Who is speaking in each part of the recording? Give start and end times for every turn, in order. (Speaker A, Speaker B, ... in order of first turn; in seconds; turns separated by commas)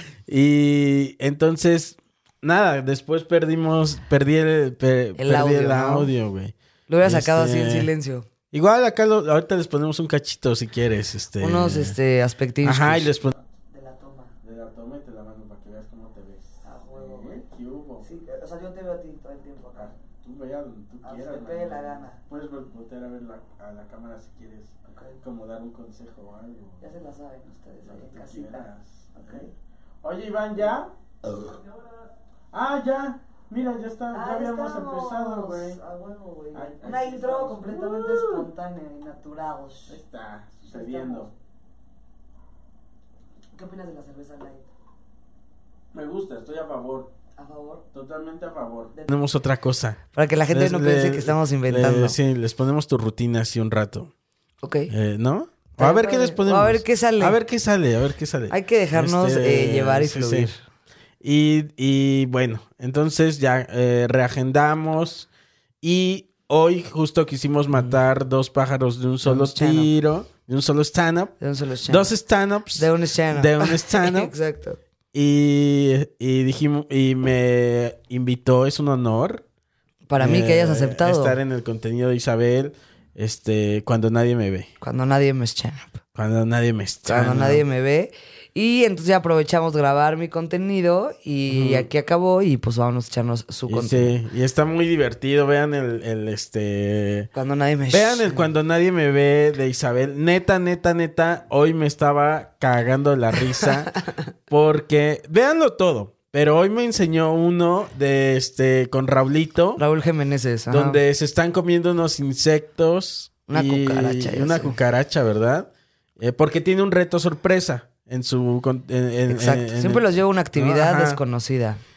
Speaker A: 0.3-7.9, Speaker B: 5.2-6.1, Speaker B: 6.9-8.3, Speaker A: 8.5-12.0, Speaker B: 11.4-13.2, Speaker A: 12.6-13.3, Speaker B: 13.7-14.3, Speaker A: 14.4-18.1, Speaker B: 16.6-17.4, Speaker B: 18.0-19.9, Speaker A: 19.7-26.8, Speaker B: 21.0-22.2, Speaker B: 24.9-25.2, Speaker B: 26.8-29.5, Speaker A: 27.8-29.5, Speaker A: 30.0-31.6, Speaker A: 32.5-35.8, Speaker B: 34.1-40.0, Speaker A: 36.5-38.5, Speaker A: 39.9-41.3, Speaker B: 40.6-41.3, Speaker B: 43.5-44.7, Speaker A: 45.9-47.1, Speaker B: 47.4-47.8, Speaker A: 47.9-54.1, Speaker B: 50.1-52.2, Speaker B: 54.6-54.9, Speaker A: 54.9-60.5, Speaker B: 55.8-57.4, Speaker B: 58.5-60.6, Speaker A: 61.2-65.3, Speaker A: 65.8-71.3, Speaker B: 69.2-69.9, Speaker B: 71.4-72.1, Speaker A: 71.8-74.3, Speaker B: 72.8-74.8, Speaker A: 75.1-79.4, Speaker B: 80.1-81.4, Speaker A: 80.2-84.7, Speaker B: 84.8-86.0, Speaker A: 86.2-87.6, Speaker B: 87.0-94.2, Speaker A: 91.5-91.9, Speaker A: 93.7-97.3, Speaker B: 97.3-98.5, Speaker A: 97.9-103.9, Speaker A: 104.5-109.8, Speaker B: 109.8-111.0, Speaker A: 110.7-121.2, Speaker B: 113.5-114.8, Speaker B: 119.3-121.8